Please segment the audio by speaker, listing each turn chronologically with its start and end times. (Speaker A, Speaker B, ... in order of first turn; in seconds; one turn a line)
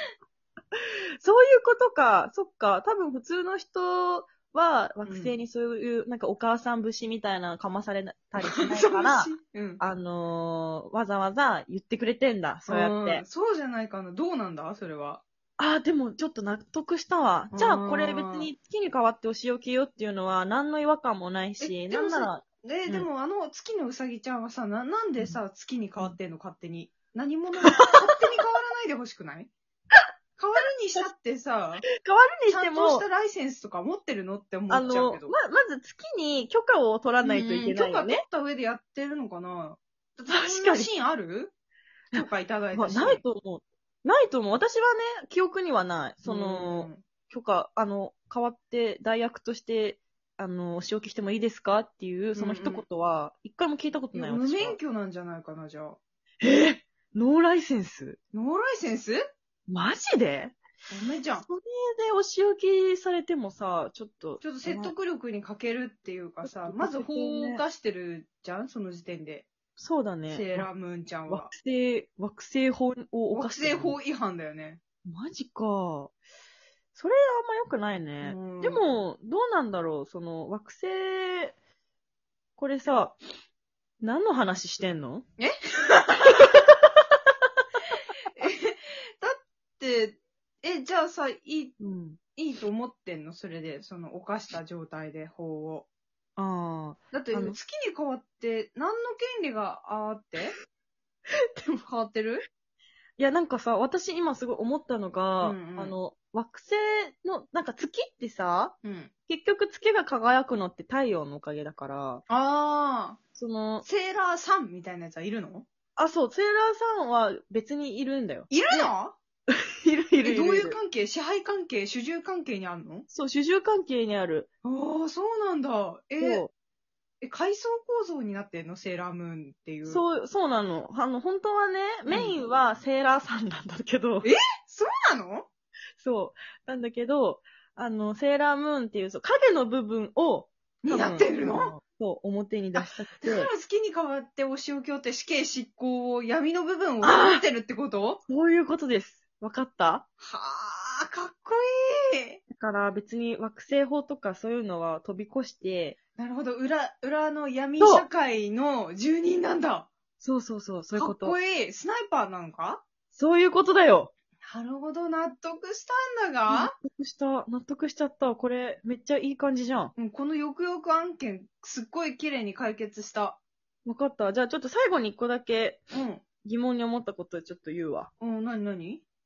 Speaker A: 0.7-13.2
Speaker B: 5.0-5.3
Speaker B: 8.4-9.8
Speaker B: 12.7-15.2
Speaker A: 15.6-23.1
Speaker B: 17.5-18.5
Speaker B: 21.6-29.5
Speaker B: 30.4-31.8
Speaker A: 31.9-33.0
Speaker B: 32.5-35.3
Speaker A: 34.7-38.2
Speaker B: 37.2-41.5
Speaker A: 40.3-40.9
Speaker B: 42.1-43.2
Speaker A: 42.1-54.8
Speaker B: 46.2-47.0
Speaker B: 52.3-52.8
Speaker B: 54.1-56.0
Speaker A: 56.4-58.2
Speaker B: 58.3-59.2
Speaker A: 59.7-60.5
Speaker B: 60.9-61.5
Speaker A: 61.4-64.9
Speaker B: 64.4-69.5
Speaker A: 66.4-67.6
Speaker A: 69.8-70.7
Speaker B: 70.3-71.5
Speaker A: 71.3-74.0
Speaker B: 73.3-74.8
Speaker A: 75.0-76.1
Speaker A: 76.9-81.5
Speaker B: 78.2-78.8
Speaker A: 82.6-83.2
Speaker A: 84.0-85.2
Speaker B: 85.4-86.5
Speaker B: 88.3-91.7
Speaker A: 91.8-92.2
Speaker B: 92.4-95.8
Speaker A: 96.4-97.6
Speaker B: 97.1-100.5
Speaker B: 101.7-102.4
Speaker A: 103.2-108.7
Speaker B: 105.4-106.0
Speaker B: 108.8-109.1
Speaker A: 109.3-112.2
Speaker B: 112.3-113.2
Speaker A: 113.3-113.8
Speaker B: 113.8-115.7
Speaker A: 116.0-118.9
Speaker B: 118.5-119.2
Speaker A: 119.5-120.8
Speaker B: 120.2-123.1
Speaker A: 123.1-124.5
Speaker B: 124.6-126.4
Speaker A: 126.2-126.5
Speaker B: 127.2-130.0
Speaker A: 129.8-134.3
Speaker B: 132.1-132.4
Speaker B: 134.2-135.5
Speaker A: 136.0-143.5
Speaker B: 140.8-141.7
Speaker B: 142.8-148.2
Speaker A: 147.0-147.4
Speaker A: 148.3-150.0
Speaker B: 150.2-152.4
Speaker A: 152.5-155.9
Speaker B: 156.2-159.9
Speaker A: 157.8-158.1
Speaker A: 160.2-161.4
Speaker B: 160.9-162.8
Speaker A: 163.1-164.1
Speaker B: 164.4-166.7
Speaker A: 166.5-169.9
Speaker B: 169.9-173.4
Speaker A: 173.8-175.8
Speaker B: 175.9-176.2
Speaker A: 176.4-178.1
Speaker B: 178.2-179.0